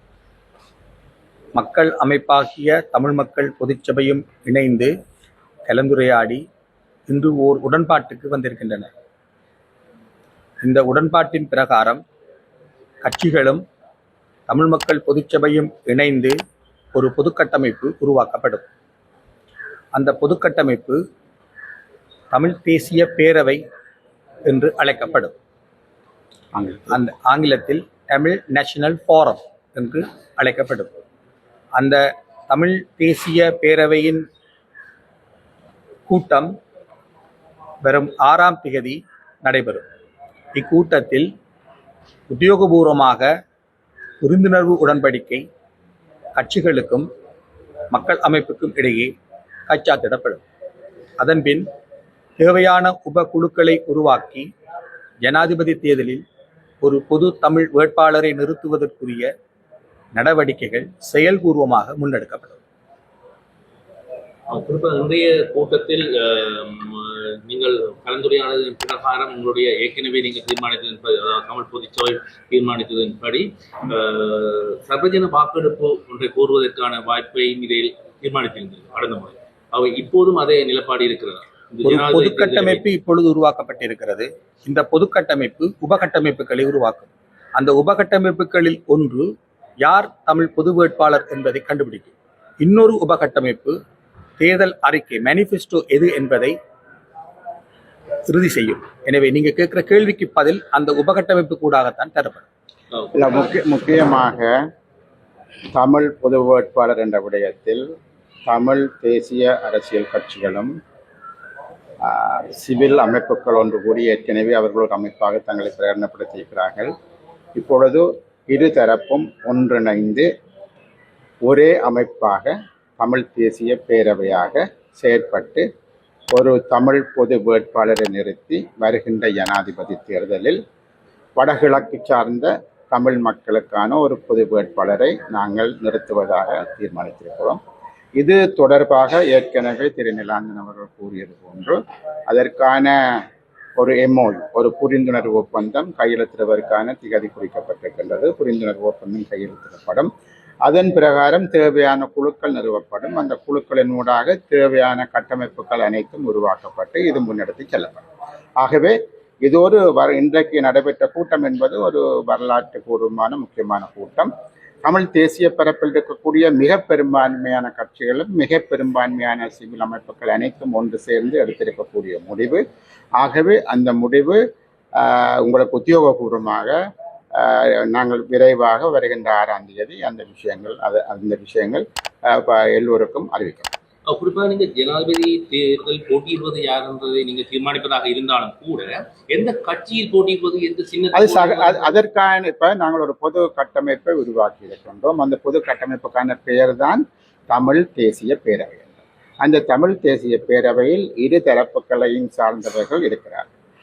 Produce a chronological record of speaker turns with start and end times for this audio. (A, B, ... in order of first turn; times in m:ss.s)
0:01.6-0:04.9 A
0:05.7-0:06.4 A
0:07.1-0:08.9 A
0:10.6-0:12.0 A
0:13.0-0:13.6 A
0:14.5-0:16.3 A
0:17.0-0:18.7 A
0:20.0-0:21.0 A
0:22.3-0:23.6 A
0:24.5-0:25.3 A
0:26.6-0:26.9 B
0:26.9-0:30.9 A
0:31.8-0:34.2 A
0:36.1-0:36.5 A
0:37.8-0:39.8 A
0:40.6-0:41.3 A
0:42.3-0:43.3 A
0:44.2-0:45.4 A
0:46.4-0:47.1 A
0:47.9-0:49.1 A
0:49.7-0:50.4 A
0:51.2-0:51.7 A
0:52.4-0:54.5 A
0:55.2-0:56.2 A
0:56.8-0:59.3 A
1:00.1-1:02.6 A
1:04.5-1:22.8 C
1:21.8-1:29.3 A
1:29.8-1:33.8 A
1:34.4-1:36.6 A
1:38.3-1:42.5 A
1:43.1-1:44.6 B
1:45.8-1:47.8 B
1:48.5-1:50.7 B
1:52.0-1:56.9 B
1:57.6-2:00.3 B
2:01.4-2:05.7 B
2:06.3-2:10.6 B
2:11.4-2:17.6 B
2:18.2-2:21.8 B
2:22.3-2:23.2 B
2:23.8-2:30.1 B
2:30.6-2:38.0 B
2:38.6-2:44.3 B
2:44.8-2:52.6 B
2:53.2-2:54.4 B
2:55.0-2:56.7 B
2:57.3-3:03.7 B
3:04.1-3:11.9 C
3:11.1-3:23.5 B